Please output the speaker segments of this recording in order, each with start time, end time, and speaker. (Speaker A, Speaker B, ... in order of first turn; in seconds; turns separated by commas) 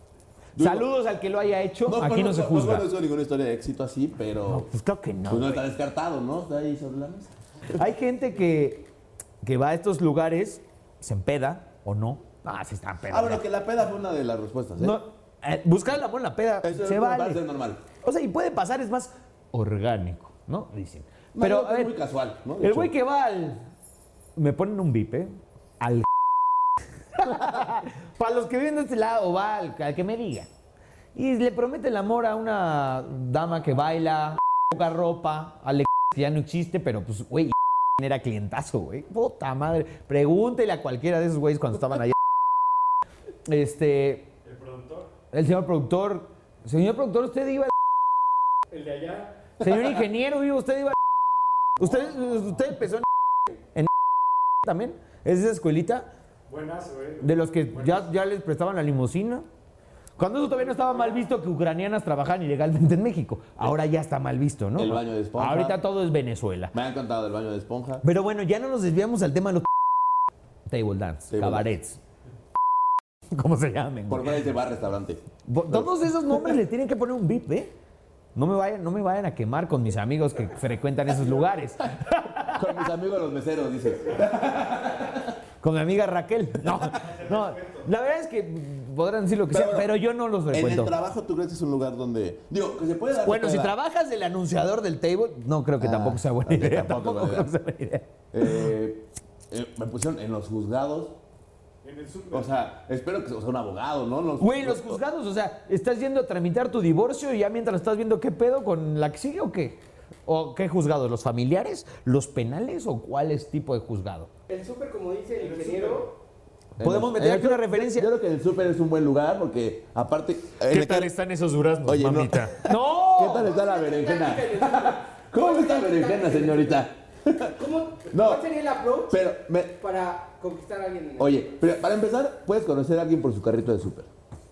Speaker A: 0.6-0.9, Speaker B: 0.6-2.9, Speaker A: 1.8-4.7, Speaker B: 4.5-5.7, Speaker A: 5.3-7.3, Speaker B: 7.7-8.9, Speaker B: 9.4-13.4, Speaker A: 13.1-15.0, Speaker B: 14.8-17.4, Speaker A: 16.6-17.8, Speaker B: 18.0-21.9, Speaker A: 21.3-22.9, Speaker B: 22.6-23.6, Speaker B: 24.4-26.1, Speaker B: 27.1-30.5, Speaker B: 31.1-42.2, Speaker B: 43.5-44.3, Speaker C: 44.4-45.1, Speaker B: 45.3-47.7, Speaker C: 48.7-49.5, Speaker B: 49.6-51.0, Speaker B: 51.8-53.1, Speaker B: 54.6-56.1, Speaker C: 56.5-58.1, Speaker B: 57.2-59.5, Speaker B: 60.2-66.7, Speaker A: 64.8-65.8, Speaker A: 66.7-68.0, Speaker B: 68.0-69.7, Speaker B: 70.7-72.0, Speaker A: 71.3-71.7, Speaker B: 73.3-74.3, Speaker A: 74.1-76.5, Speaker B: 75.5-77.7, Speaker B: 78.3-82.8, Speaker A: 82.4-85.3, Speaker B: 85.6-90.9, Speaker C: 86.9-87.9, Speaker A: 89.5-89.9, Speaker A: 90.5-93.7, Speaker B: 93.2-98.1, Speaker A: 95.8-97.5, Speaker A: 98.3-101.1, Speaker C: 101.8-102.5, Speaker A: 102.3-105.0, Speaker B: 104.4-114.3, Speaker D: 114.5-116.1, Speaker C: 115.4-116.1, Speaker A: 116.8-121.1, Speaker B: 116.8-118.1, Speaker B: 120.7-123.5, Speaker A: 121.8-127.5, Speaker D: 123.3-126.9, Speaker D: 127.5-129.2, Speaker A: 128.1-128.4, Speaker A: 129.1-129.8, Speaker D: 129.8-131.5, Speaker A: 131.2-134.1